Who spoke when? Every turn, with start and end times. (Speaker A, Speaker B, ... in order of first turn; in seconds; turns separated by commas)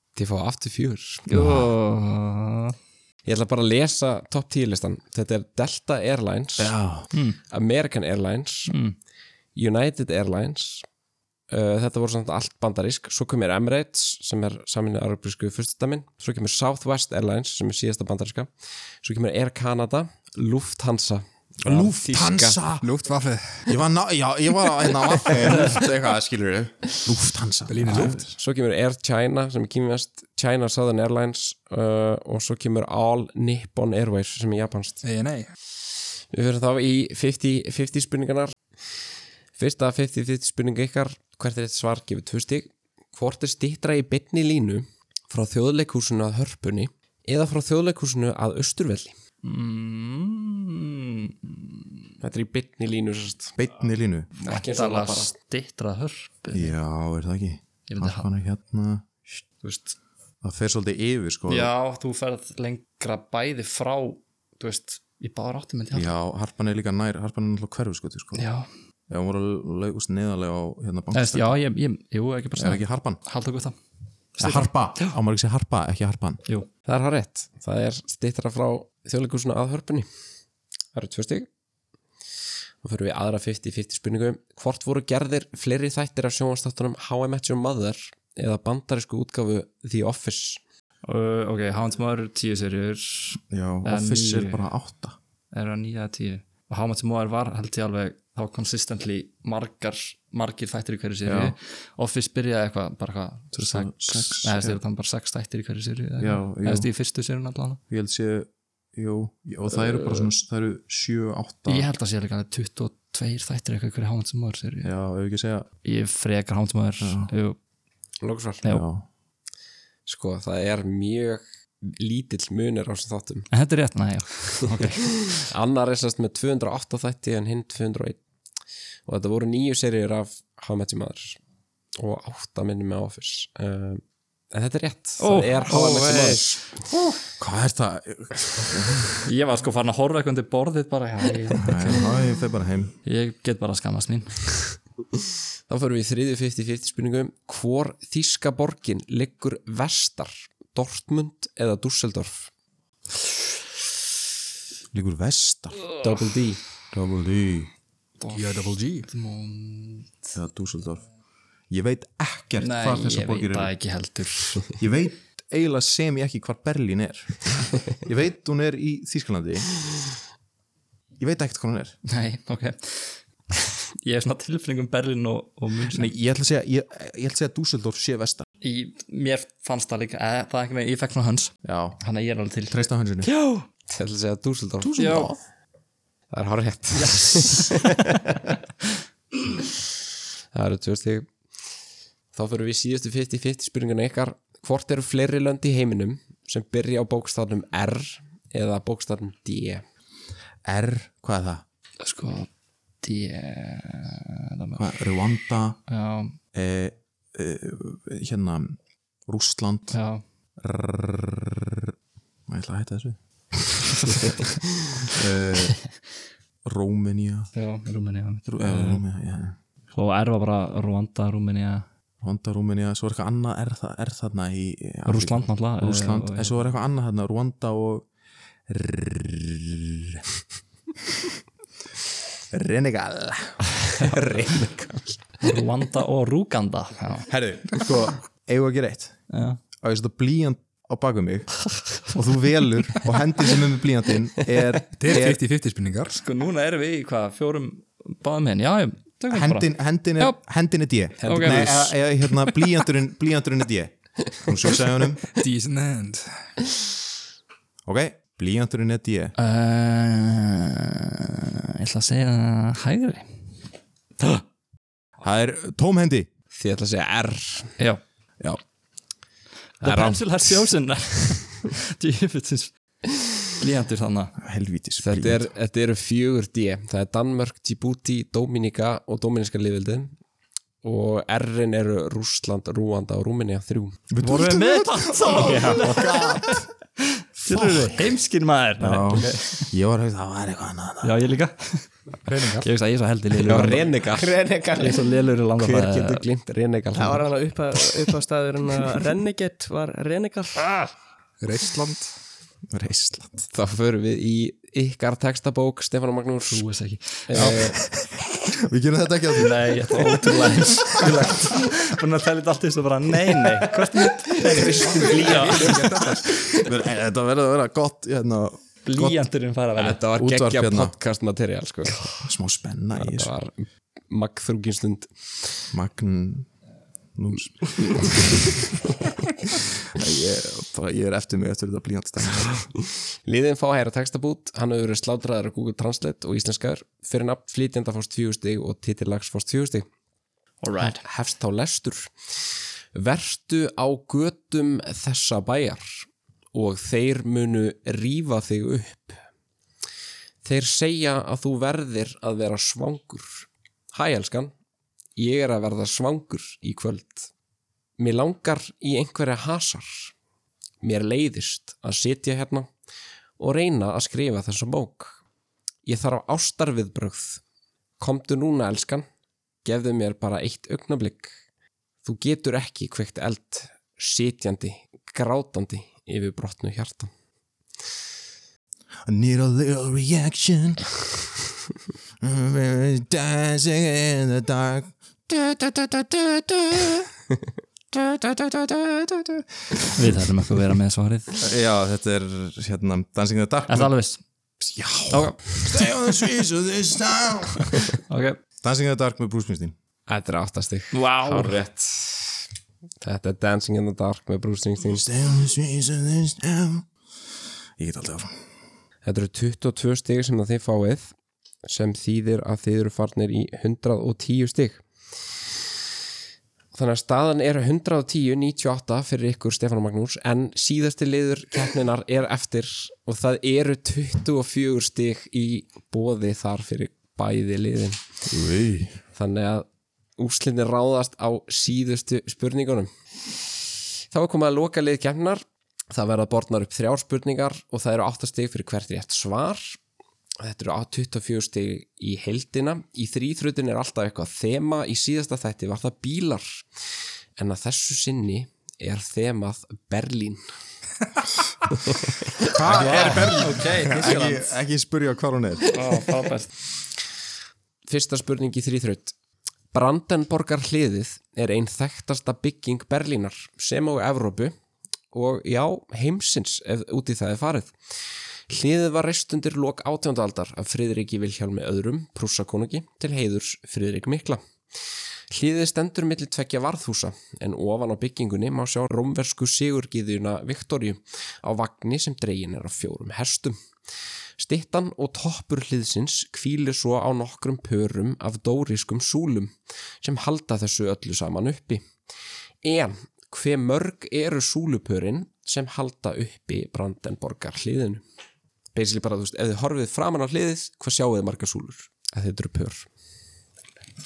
Speaker A: 0.1-1.3, Speaker B: 1.3-2.8, Speaker C: 1.3-1.6, Speaker A: 3.2-6.8, Speaker C: 6.6-7.1, Speaker B: 7.1-7.4, Speaker A: 7.5-8.7, Speaker B: 8.7-9.0, Speaker A: 9.6-10.9, Speaker A: 11.5-22.6, Speaker C: 21.6-22.9, Speaker D: 22.8-23.7, Speaker C: 23.7-28.3, Speaker D: 27.7-28.3, Speaker A: 27.9-35.0, Speaker D: 35.0-35.5, Speaker A: 36.3-38.6, Speaker A: 39.5-49.2, Speaker B: 49.4-52.0, Speaker A: 52.2-53.6, Speaker C: 53.6-54.3, Speaker B: 54.4-56.7, Speaker A: 54.4-55.3, Speaker C: 56.5-59.1, Speaker B: 57.9-58.3, Speaker B: 59.6-60.0, Speaker C: 60.4-61.7, Speaker B: 61.5-66.1, Speaker C: 65.9-68.5, Speaker B: 68.4-68.7, Speaker C: 69.1-71.6, Speaker B: 71.1-73.8, Speaker C: 72.6-73.2, Speaker B: 74.4-75.2, Speaker C: 74.4-76.4, Speaker A: 76.8-80.1, Speaker A: 80.9-81.5, Speaker A: 82.8-90.6, Speaker B: 91.0-94.7, Speaker C: 93.5-95.2, Speaker B: 95.5-107.8, Speaker C: 101.2-101.6, Speaker C: 103.5-104.8, Speaker C: 106.2-106.9, Speaker C: 107.9-111.9, Speaker B: 111.7-114.9, Speaker C: 114.8-115.7, Speaker B: 115.8-117.6, Speaker C: 117.0-117.3, Speaker A: 118.2-118.7, Speaker C: 118.7-119.0, Speaker A: 120.0-123.5, Speaker B: 123.5-125.3, Speaker A: 125.4-128.2, Speaker A: 129.1-131.4, Speaker A: 132.0-136.5, Speaker B: 135.2-136.9, Speaker C: 137.3-139.2, Speaker B: 139.2-142.2, Speaker C: 141.6-142.9, Speaker B: 143.1-144.7, Speaker A: 145.7-152.5, Speaker C: 154.9-155.8, Speaker A: 156.0-156.6, Speaker C: 156.9-157.7, Speaker B: 158.2-160.4, Speaker D: 158.3-159.1, Speaker C: 160.3-161.0, Speaker C: 161.7-163.7, Speaker B: 162.6-164.8, Speaker C: 164.8-169.7, Speaker C: 171.2-172.0, Speaker B: 172.1-176.1, Speaker C: 175.9-178.4, Speaker B: 178.6-183.7, Speaker C: 181.6-182.0, Speaker C: 182.7-183.3, Speaker A: 183.9-184.9, Speaker C: 184.8-185.4, Speaker B: 185.0-185.3, Speaker A: 186.3-188.2, Speaker B: 186.9-187.8, Speaker A: 190.5-191.5, Speaker A: 192.3-199.8, Speaker C: 200.7-201.6, Speaker B: 202.0-202.5, Speaker B: 203.0-204.9, Speaker C: 204.8-205.8, Speaker B: 205.9-206.4, Speaker C: 206.5-210.0, Speaker B: 209.9-210.2, Speaker C: 210.6-211.9, Speaker C: 212.5-213.2, Speaker C: 214.1-214.3, Speaker C: 215.1-215.8, Speaker C: 216.7-217.5, Speaker B: 217.6-219.0, Speaker C: 218.5-219.6, Speaker B: 219.9-221.9, Speaker C: 222.2-228.1, Speaker B: 225.1-226.6, Speaker C: 228.7-230.2, Speaker C: 232.5-234.5, Speaker A: 234.0-235.2, Speaker B: 235.4-237.3, Speaker C: 237.3-239.2, Speaker B: 239.3-239.6, Speaker C: 239.8-245.4, Speaker D: 245.0-246.2, Speaker B: 246.1-250.4, Speaker C: 249.3-255.3, Speaker A: 251.2-251.8, Speaker B: 251.2-252.0, Speaker D: 255.4-256.5, Speaker C: 257.9-259.4, Speaker B: 259.4-263.5, Speaker C: 265.2-266.3, Speaker A: 266.5-267.7, Speaker B: 269.8-272.7, Speaker A: 269.8-270.2, Speaker B: 273.6-274.4, Speaker C: 274.4-275.5, Speaker A: 275.0-280.1, Speaker A: 280.8-284.0, Speaker C: 284.1-286.7, Speaker B: 284.2-289.7, Speaker C: 287.4-288.0, Speaker C: 288.8-291.2, Speaker B: 291.0-292.0, Speaker D: 292.2-292.7, Speaker B: 292.6-294.1, Speaker A: 293.4-297.4, Speaker C: 293.5-293.8, Speaker B: 294.8-296.2, Speaker E: 297.0-300.7, Speaker D: 301.4-302.1, Speaker C: 302.7-303.5, Speaker A: 303.5-306.6, Speaker B: 306.5-307.8, Speaker A: 307.3-307.8, Speaker C: 307.4-311.3, Speaker B: 309.3-315.9, Speaker A: 314.3-315.8, Speaker D: 314.8-316.4, Speaker C: 316.6-319.2, Speaker B: 318.8-320.0, Speaker A: 319.8-322.0, Speaker C: 320.1-321.0, Speaker C: 322.2-323.3, Speaker A: 323.0-325.5, Speaker C: 325.7-326.5, Speaker C: 327.1-328.4, Speaker C: 329.6-332.7, Speaker A: 333.2-339.9, Speaker B: 340.6-341.0, Speaker A: 340.8-342.1, Speaker A: 342.9-349.2, Speaker A: 350.4-354.5, Speaker A: 355.2-357.3, Speaker A: 358.0-360.1, Speaker A: 360.8-362.7, Speaker A: 363.4-365.2, Speaker A: 365.9-367.4, Speaker A: 368.0-369.1, Speaker A: 369.6-371.3, Speaker A: 372.0-377.1, Speaker C: 379.1-380.9, Speaker C: 382.2-387.1, Speaker C: 387.9-390.2, Speaker B: 389.9-391.4, Speaker C: 391.4-393.9, Speaker B: 393.7-394.2, Speaker C: 394.6-397.9, Speaker B: 395.1-395.4, Speaker B: 398.1-398.4, Speaker C: 398.6-399.8, Speaker A: 400.1-402.4, Speaker B: 400.9-401.6, Speaker A: 403.0-405.1, Speaker C: 404.8-406.9, Speaker C: 407.8-408.4, Speaker A: 409.0-414.9, Speaker A: 416.7-428.1, Speaker C: 428.2-428.9, Speaker A: 429.1-432.9, Speaker A: 434.1-439.8, Speaker A: 440.4-446.6, Speaker A: 447.4-450.4, Speaker C: 452.5-455.8, Speaker B: 452.6-454.6, Speaker B: 455.7-456.5, Speaker A: 457.9-459.1, Speaker A: 459.7-464.6, Speaker A: 465.1-467.7, Speaker A: 468.5-474.4, Speaker A: 475.3-483.6, Speaker A: 484.4-491.9, Speaker A: 492.6-498.0, Speaker A: 498.7-502.9